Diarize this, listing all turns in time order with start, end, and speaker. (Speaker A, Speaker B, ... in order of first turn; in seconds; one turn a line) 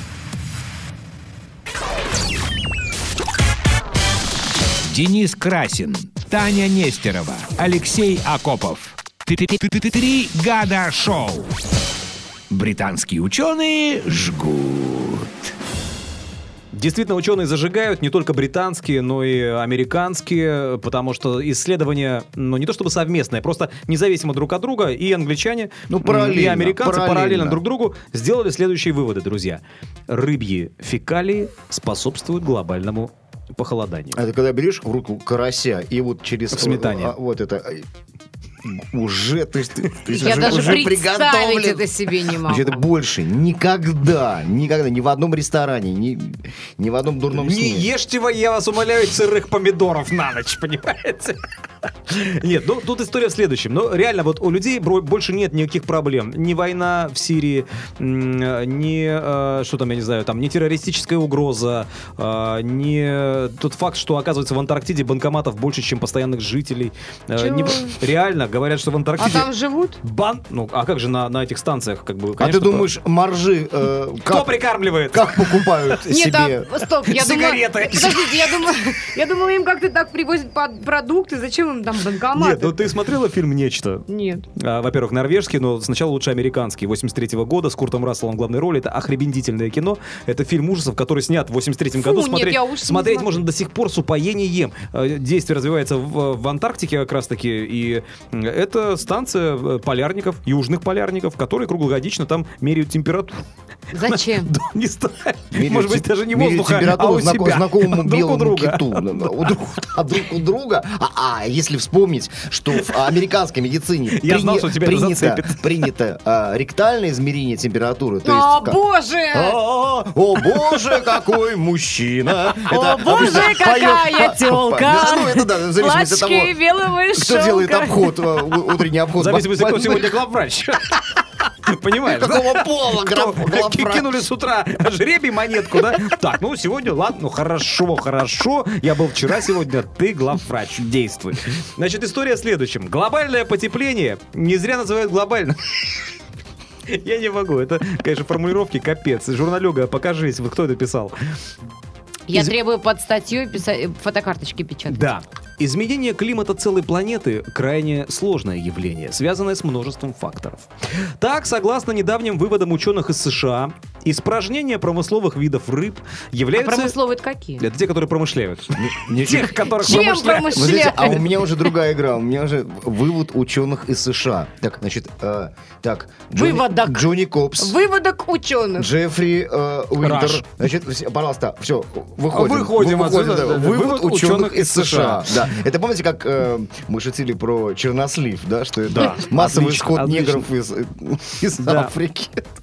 Speaker A: 4.9-11.5
Speaker A: 12.5-15.3
Speaker B: 16.7-34.2
Speaker C: 25.9-27.6
Speaker C: 34.1-37.9
Speaker B: 36.5-37.1
Speaker C: 38.6-47.9
Speaker B: 39.9-40.9
Speaker D: 40.2-42.9
Speaker B: 47.3-69.5
Speaker D: 67.3-68.0
Speaker D: 69.2-70.0
Speaker B: 70.0-72.9
Speaker C: 72.4-76.8
Speaker B: 74.2-76.1
Speaker D: 76.1-82.8
Speaker B: 77.0-78.7
Speaker B: 82.3-84.0
Speaker D: 84.1-84.4
Speaker B: 84.5-109.8
Speaker D: 91.9-93.5
Speaker D: 103.9-104.5
Speaker C: 105.5-118.8
Speaker B: 112.7-113.1
Speaker B: 114.1-115.9
Speaker D: 118.2-119.6
Speaker C: 119.3-126.5
Speaker D: 122.7-128.6
Speaker C: 127.1-130.2
Speaker B: 129.1-146.1
Speaker C: 132.0-134.2
Speaker B: 146.8-151.1
Speaker D: 152.3-155.1
Speaker B: 154.9-166.9
Speaker D: 166.5-167.7
Speaker B: 167.6-170.7
Speaker C: 168.7-177.8
Speaker D: 169.5-171.6
Speaker D: 176.3-178.9
Speaker C: 178.8-192.5
Speaker B: 180.0-180.5
Speaker B: 182.3-185.4
Speaker B: 188.9-190.5
Speaker B: 191.6-191.9